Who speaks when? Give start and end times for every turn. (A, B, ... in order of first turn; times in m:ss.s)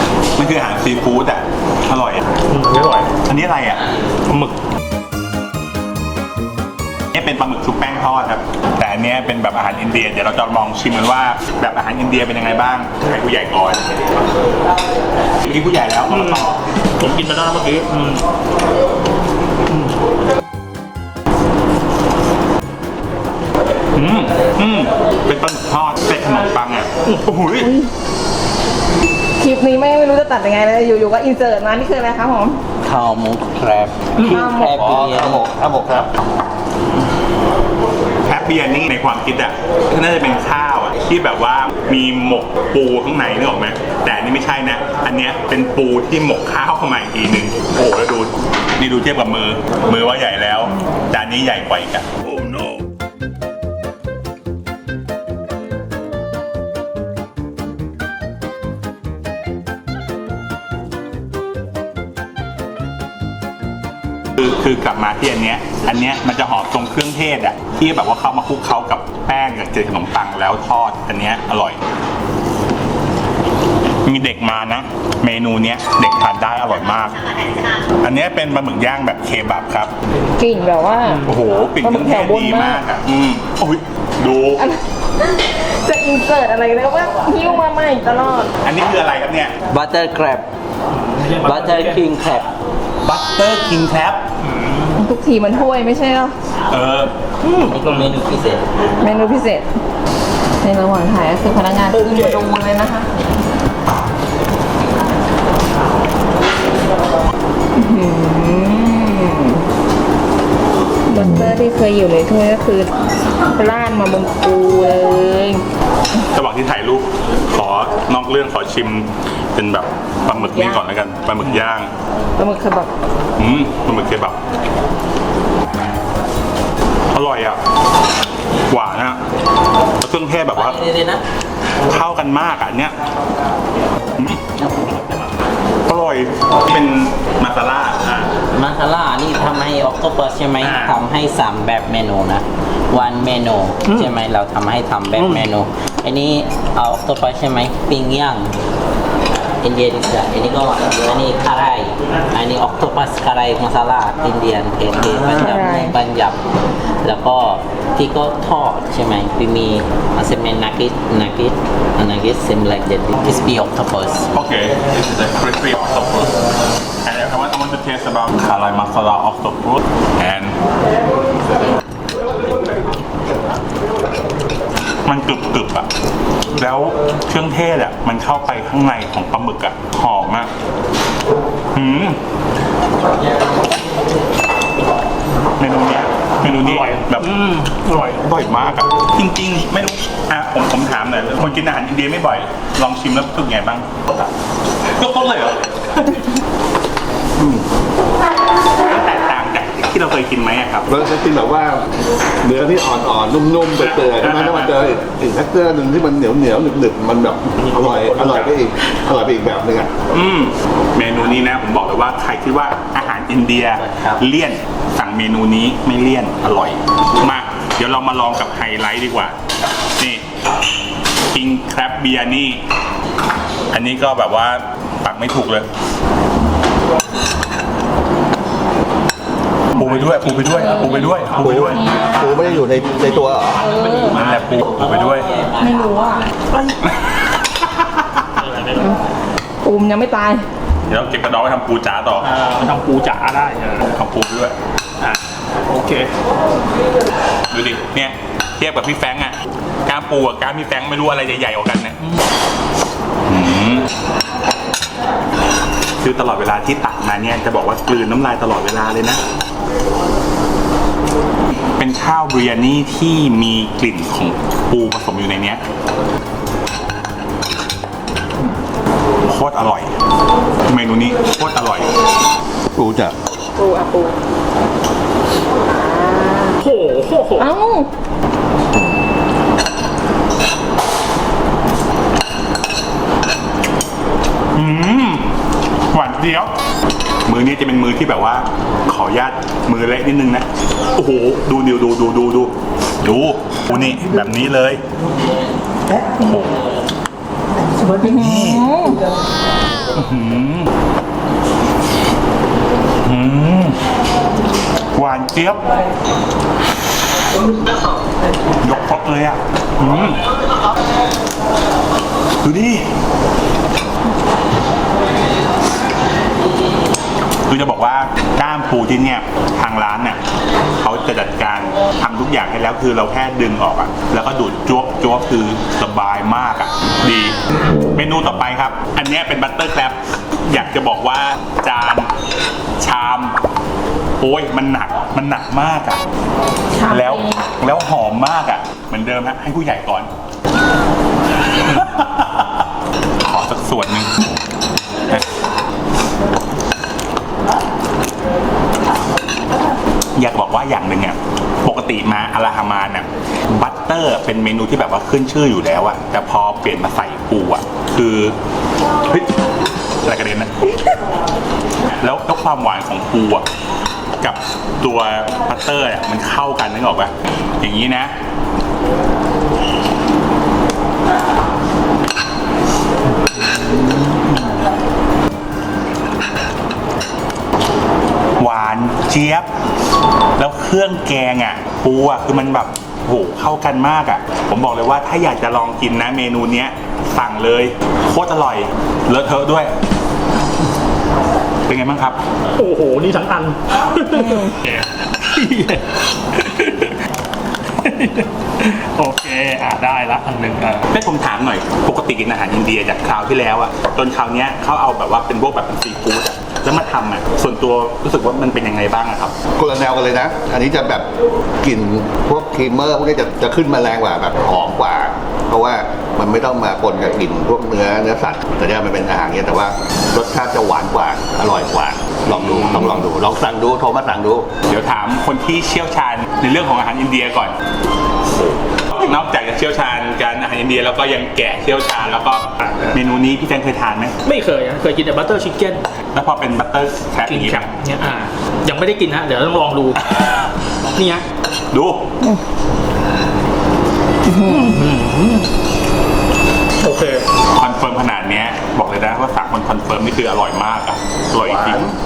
0:00.4-0:02.2 A
0:02.5-0:03.2 B
0:03.3-0:04.5 A
0:07.1-0:13.8 A
0:15.4-0:16.6 A
0:16.1-0:18.2 B
0:19.7-0:20.0 B
0:24.0-0:27.7 A
0:27.6-0:27.9 C
0:29.4-0:32.6 C
0:32.8-0:35.5 D
0:34.2-0:34.7 C
0:34.8-0:36.1 E
0:38.3-0:52.7 A
1:04.4-1:11.8 A
1:14.0-1:19.9 A
1:20.4-1:21.2 C
1:21.2-1:24.6 A
1:21.8-1:22.8 C
1:24.6-1:28.5 C
1:28.6-1:29.6 A
1:29.7-1:30.5 D
1:30.9-1:32.1 B
1:31.4-1:32.5 D
1:33.0-1:34.2 A
1:34.4-1:35.0 B
1:35.0-1:36.4 C
1:36.7-1:37.1 A
1:37.4-1:38.1 B
1:37.6-1:38.6 D
1:39.0-1:39.7 C
1:40.6-1:43.1 C
1:41.9-1:42.5 B
1:47.8-1:49.6 C
1:51.1-1:52.9 C
1:53.5-1:55.6 C
1:56.3-2:01.9 A
2:00.3-2:00.8 C
2:02.4-2:02.9 C
2:03.4-2:04.4 A
2:07.1-2:07.6 A
2:08.7-2:09.2 A
2:10.0-2:10.8 A
2:10.5-2:11.2 D
2:11.8-2:13.0 A
2:14.2-2:14.4 A
2:15.9-2:18.3 A
2:18.5-2:28.6 D
2:20.6-2:21.0 A
2:23.9-2:24.1 B
2:29.6-2:36.4 D
2:35.4-2:36.0 C
2:37.0-2:44.3 D
2:44.3-2:46.3 A
2:47.0-2:50.6 A
2:55.0-2:55.9 A
2:56.5-3:00.5 A
3:01.7-3:02.2 A
3:05.6-3:07.3 A
3:06.4-3:08.2 B
3:08.2-3:14.3 A
3:14.9-3:16.3 A
3:17.4-3:17.6 E
3:18.8-3:20.9 A
3:20.9-3:21.9 E
3:22.4-3:30.0 E
3:23.9-3:24.7 A
3:27.6-3:28.5 B
3:30.1-3:39.4 A
3:33.7-3:34.2 D
3:40.0-3:40.2 A
3:41.3-3:42.6 A
3:43.7-3:45.7 A
3:49.8-3:51.9 A
3:49.8-3:51.6 B
3:51.4-3:53.6 E
3:51.6-3:52.4 C
3:52.9-3:54.6 B
3:53.6-3:54.2 C
3:54.1-3:55.3 A
3:54.5-3:56.4 D
3:55.6-3:56.3 C
3:56.9-3:58.3 A
3:58.4-3:58.9 B
3:58.8-3:59.0 C
3:59.6-4:00.4 C
4:00.9-4:02.3 A
4:02.2-4:03.9 B
4:03.9-4:04.6 A
4:05.0-4:06.1 B
4:07.5-4:09.4 A
4:09.9-4:12.0 A
4:13.3-4:13.9 A
4:16.0-4:19.2 A
4:21.8-4:25.6 A
4:29.2-4:30.0 A
4:30.7-4:31.9 A
4:32.7-4:33.2 E
4:33.6-4:34.2 C
4:35.6-4:36.6 C
4:36.6-4:37.5 B
4:37.4-4:37.9 C
4:44.5-4:45.3 A
4:45.9-4:46.5 A
4:47.3-4:54.8 A
4:56.1-4:56.7 A
4:56.4-4:56.7 D
4:58.0-4:59.0 C
4:58.0-4:58.7 A
4:59.9-5:00.7 A
5:03.0-5:03.8 A
5:04.9-5:05.7 A
5:08.6-5:10.2 A
5:12.4-5:12.9 A
5:17.5-5:20.2 A
5:20.8-5:27.4 A
5:28.0-5:32.1 A
5:32.8-5:33.4 A
5:34.2-5:36.0 A
5:36.8-5:37.5 C
5:36.9-5:40.1 A
5:41.5-5:42.7 A
5:43.2-5:44.1 A
5:50.2-5:58.4 A
6:00.0-6:00.8 A
6:02.0-6:03.5 A
6:04.2-6:08.1 A
6:13.6-6:14.2 A
6:18.4-6:19.5 A
6:20.4-6:29.7 A
6:31.7-6:32.2 A
6:32.6-6:37.0 B
6:34.2-6:34.5 C
6:37.8-6:40.9 B
6:40.9-6:49.4 A
6:49.6-6:51.1 E
6:51.6-7:04.5 E
7:02.3-7:03.0 A
7:04.7-7:07.6 A
7:08.3-7:14.2 A
7:12.6-7:13.0 B
7:14.2-7:15.8 B
7:16.1-7:17.7 A
7:17.3-7:20.0 B
7:20.2-7:20.4 A
7:20.9-7:21.3 B
7:21.7-7:22.0 A
7:24.3-7:24.8 C
7:24.4-7:25.5 B
7:26.8-7:27.3 B
7:27.5-7:31.9 A
7:31.4-7:32.0 E